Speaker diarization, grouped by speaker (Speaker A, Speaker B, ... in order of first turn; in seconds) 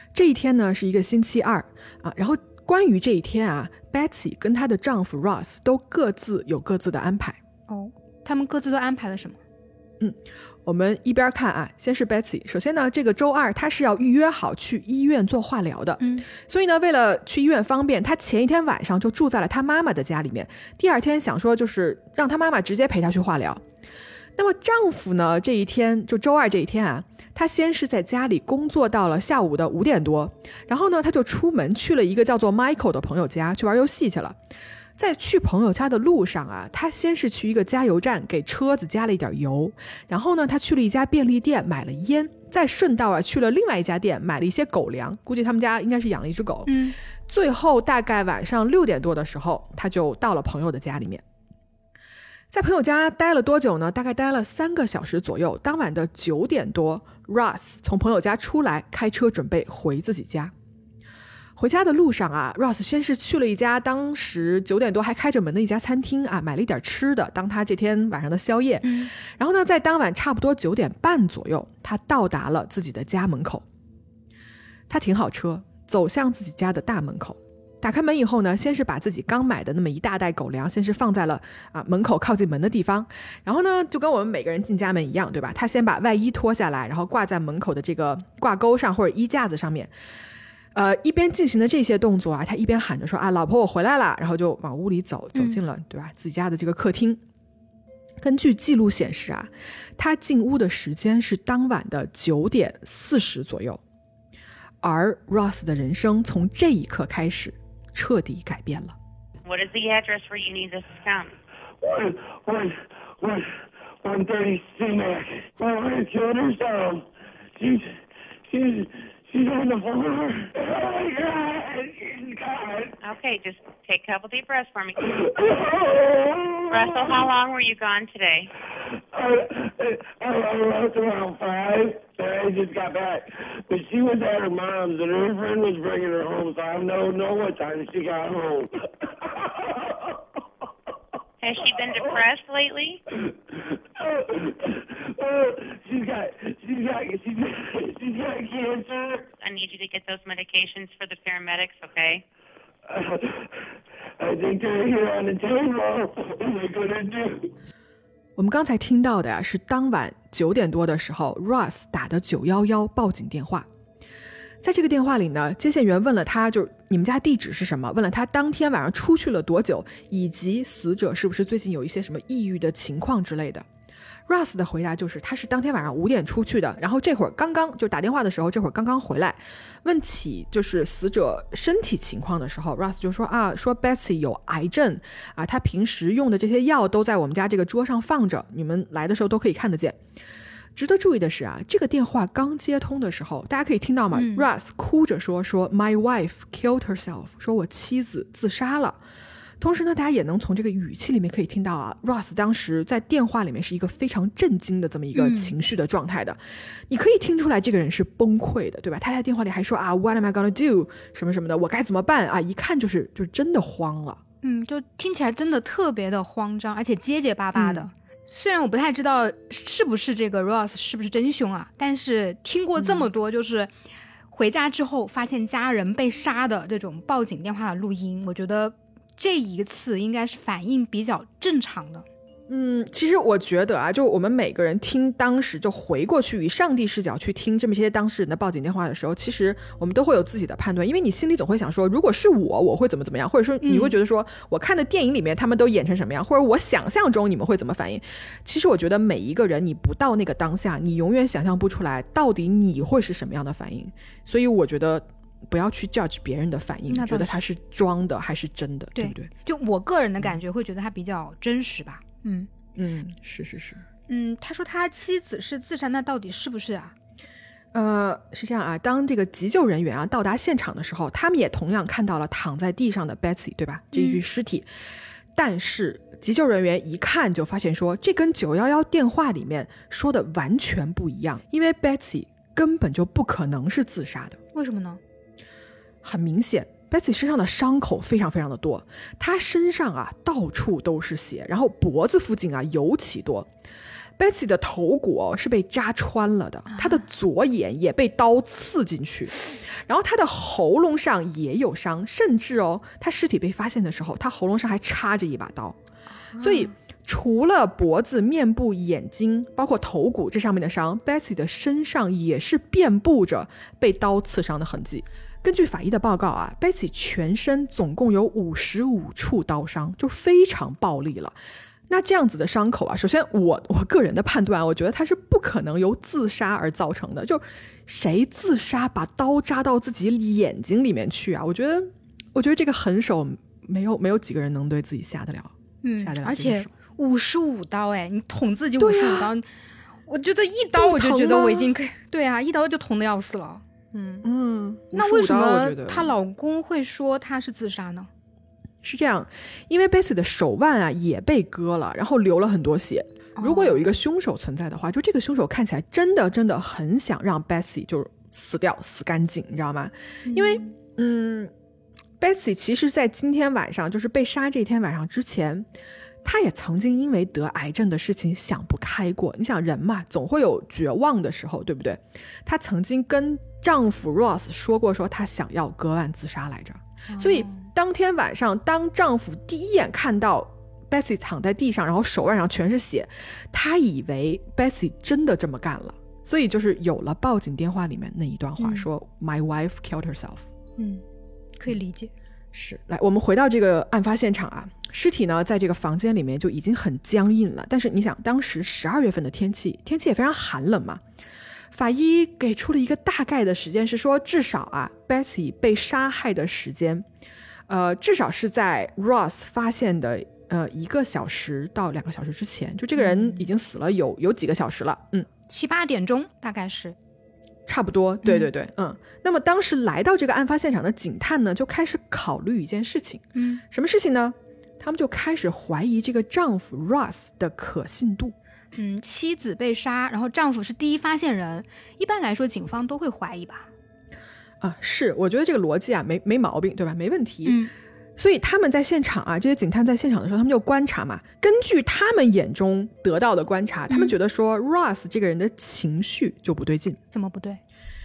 Speaker A: 0.1-7.4, 10.0-23.6, 24.4-34.4, 35.0-46.7, 47.3-51.2, 52.5-60.5, 61.6-73.6, 74.9-89.9, 90.7-97.2, 98.2-103.8, 104.8-108.9, 158.4-163.7, 164.6-173.7, 174.3-190.0, 190.8-199.0, 199.6-214.2, 217.5-217.9, 222.8-223.1, 232.5-259.3, 262.8-263.8, 267.7-274.7, 275.4-284.4, 286.0-293.5, 294.2-305.8, 306.4-321.4, 321.9-336.7, 338.8-339.3, 340.7-341.7, 344.2-346.1, 348.8-361.5, 362.2-365.6, 366.2-390.4, 392.5-401.0, 401.7-407.0, 407.7-415.3, 417.6-428.3, 434.6-437.6, 438.2-447.0
Speaker B: 7.7-9.4, 16.0-16.3, 46.7-47.0, 68.8-69.1, 95.3-95.6, 194.1-194.5, 205.1-205.6, 214.4-223.7, 224.3-232.1, 243.6-244.0, 256.9-257.4, 258.9-262.5, 264.1-266.9, 273.9-274.2, 284.5-285.0, 296.7-297.0, 306.3-306.7, 335.8-339.5, 340.0-344.3, 344.9-348.1, 353.4-354.0, 360.3-360.7, 377.1-377.6, 388.6-388.9, 390.8-391.0, 391.6-392.1, 412.9-413.4, 415.5-416.9, 423.3-423.6, 428.7-433.7, 437.4-437.7, 443.9-444.1, 447.1-447.6
Speaker C: 109.4-111.3, 123.0-125.0, 126.7-128.5, 141.4-143.0, 149.4-152.2
Speaker D: 111.8-113.5, 114.0-117.0, 117.6-122.9, 125.0-127.2, 129.1-140.1, 143.5-149.3, 152.9-153.5, 154.2-157.5